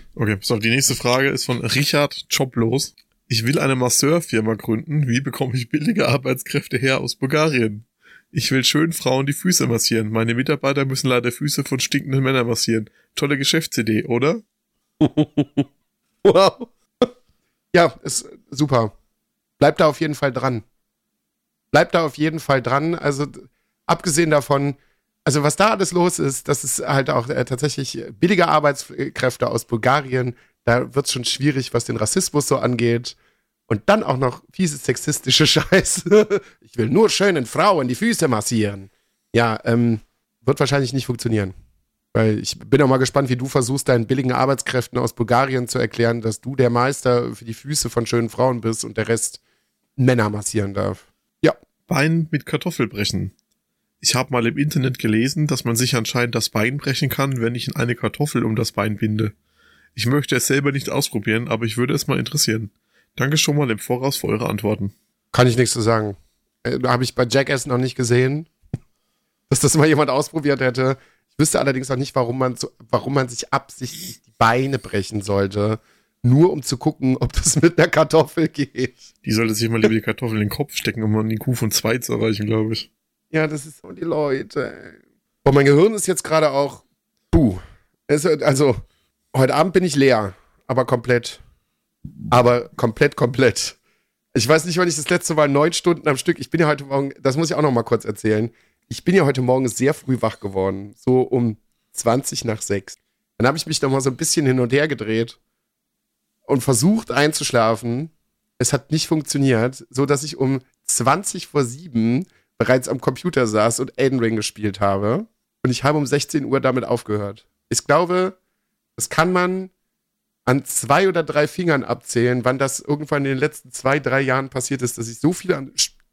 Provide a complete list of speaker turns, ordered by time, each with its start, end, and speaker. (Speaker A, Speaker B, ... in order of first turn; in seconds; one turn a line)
Speaker A: 0.2-14.4
Speaker B: 15.0-15.7
Speaker B: 16.2-17.1
Speaker B: 17.7-18.9
Speaker B: 19.6-20.6
Speaker B: 21.7-33.2
Speaker B: 33.7-41.5
Speaker B: 42.1-49.4
Speaker B: 50.0-51.5
Speaker A: 51.9-53.3
Speaker A: 54.0-59.3
Speaker A: 60.0-64.9
Speaker B: 65.3-68.5
Speaker B: 69.5-79.0
Speaker A: 79.2-82.9
Speaker B: 83.3-88.8
Speaker B: 89.3-91.4
Speaker B: 92.3-93.8
Speaker B: 94.3-105.4
Speaker B: 106.5-118.4
Speaker B: 119.0-119.7
Speaker B: 120.5-125.9